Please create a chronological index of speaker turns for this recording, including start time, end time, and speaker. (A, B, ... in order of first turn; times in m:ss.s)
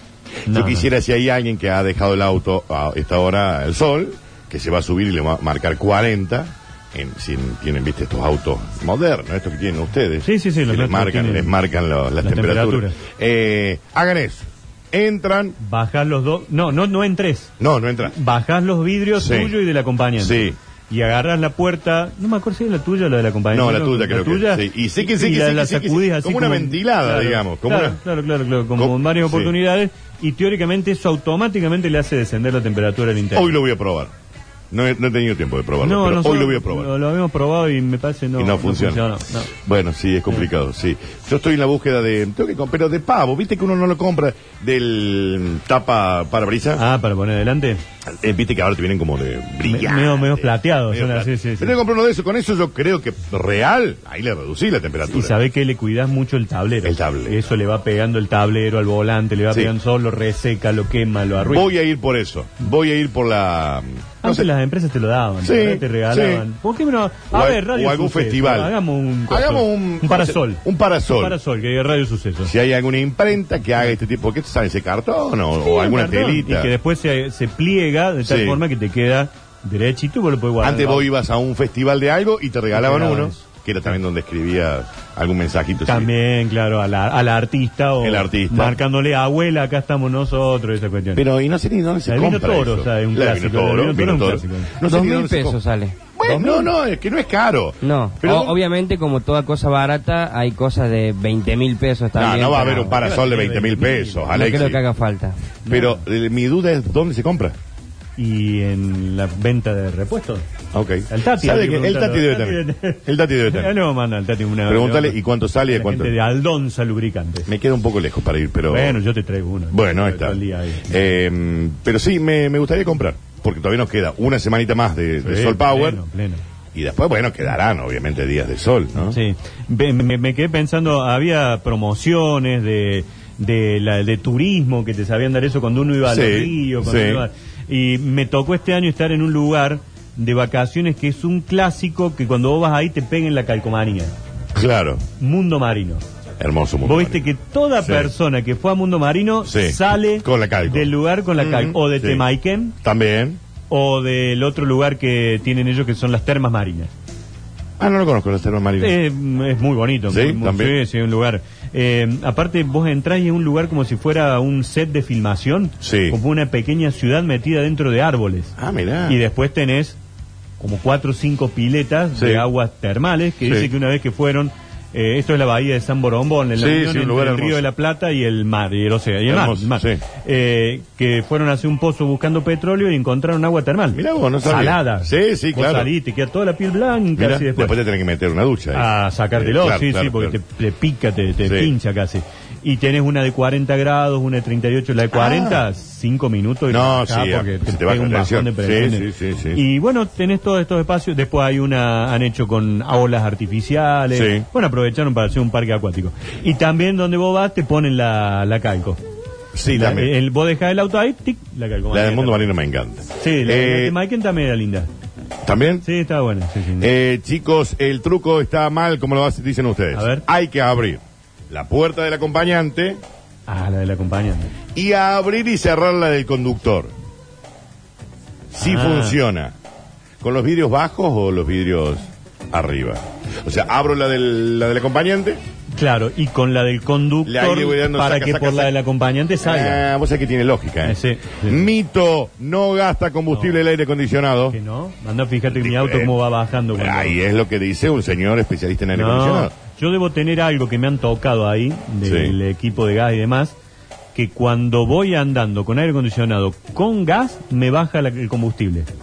0:00.5-0:00.9 A
0:00.5-0:15.6 B
0:10.2-0:11.5 A
0:12.2-0:13.0 A
0:15.6-0:17.5 A
0:17.6-0:18.1 B
0:18.0-0:33.5 A
0:19.2-0:19.5 B
0:20.2-0:20.6 B
0:23.5-0:28.0 B
0:28.8-0:29.5 B
0:33.3-0:34.1 B
0:34.7-0:36.9 B
0:35.8-0:39.5 A
0:38.4-0:46.8 B
0:46.8-0:47.8 A
0:48.0-0:55.4 B
0:49.6-0:51.8 A
0:55.0-1:01.7 A
0:56.8-0:57.5 B
1:01.4-1:04.5 B
1:04.2-1:12.5 A
1:05.4-1:06.4 B
1:07.3-1:08.7 B
1:09.3-1:11.4 B
1:12.4-1:16.7 B
1:15.6-1:21.0 A
1:18.2-1:18.6 B
1:20.6-1:26.1 B
1:22.7-1:23.4 A
1:25.8-1:31.2 A
1:28.0-1:28.8 B
1:31.1-1:35.6 B
1:32.0-1:34.7 A
1:34.8-1:36.7 C
1:36.2-1:38.6 B
1:37.8-1:43.0 C
1:42.2-1:44.8 B
1:42.6-1:44.3 A
1:44.3-1:45.4 C
1:45.7-1:46.0 A
1:45.7-1:47.6 B
1:48.2-1:50.4 A
1:50.7-1:53.7 B
1:51.1-1:57.5 A
1:54.6-1:56.1 B
1:57.5-1:59.0 B
1:58.7-2:01.0 A
1:59.7-2:06.0 B
2:05.2-2:06.4 A
2:06.7-2:09.2 B
2:09.0-2:24.1 A
2:16.0-2:17.2 B
2:24.5-2:25.0 B
2:25.2-2:26.0 A
2:26.4-2:27.2 B
2:26.8-2:32.8 A
2:27.8-2:28.1 B
2:29.4-2:32.2 B
2:32.8-2:33.4 B
2:33.7-2:36.9 A
2:37.8-2:39.0 B
2:38.8-2:50.0 A
2:40.1-2:40.8 B
2:45.8-2:46.2 B
2:48.6-2:49.2 B
2:50.6-3:07.8 A
2:52.1-2:52.5 B
2:53.4-2:53.7 B
2:56.6-2:57.6 B
2:59.3-3:00.0 B
3:03.9-3:05.9 B
3:07.2-3:10.4 B
3:08.7-3:29.0 A
3:11.4-3:11.7 B
3:15.1-3:15.6 B
3:16.7-3:19.6 B
3:24.1-3:24.5 B
3:29.5-3:30.1 B
3:29.7-3:32.5 A
3:31.9-3:34.0 B
3:33.2-3:34.9 A
3:35.4-3:35.8 B
3:35.8-3:36.9 A
3:36.8-3:43.0 B
3:39.9-3:40.2 A
3:43.5-3:44.5 A
3:44.7-3:46.9 B
3:48.5-3:49.5 B
3:48.6-3:49.2 A
3:50.2-3:55.4 B
3:55.7-3:59.9 A
3:57.2-3:58.7 B
3:59.4-4:04.6 B
4:00.8-4:01.7 A
4:03.3-4:03.6 A
4:04.5-4:07.2 A
4:05.5-4:06.2 B
4:06.7-4:09.5 B
4:08.9-4:13.5 A
4:12.0-4:12.4 B
4:14.1-4:18.9 A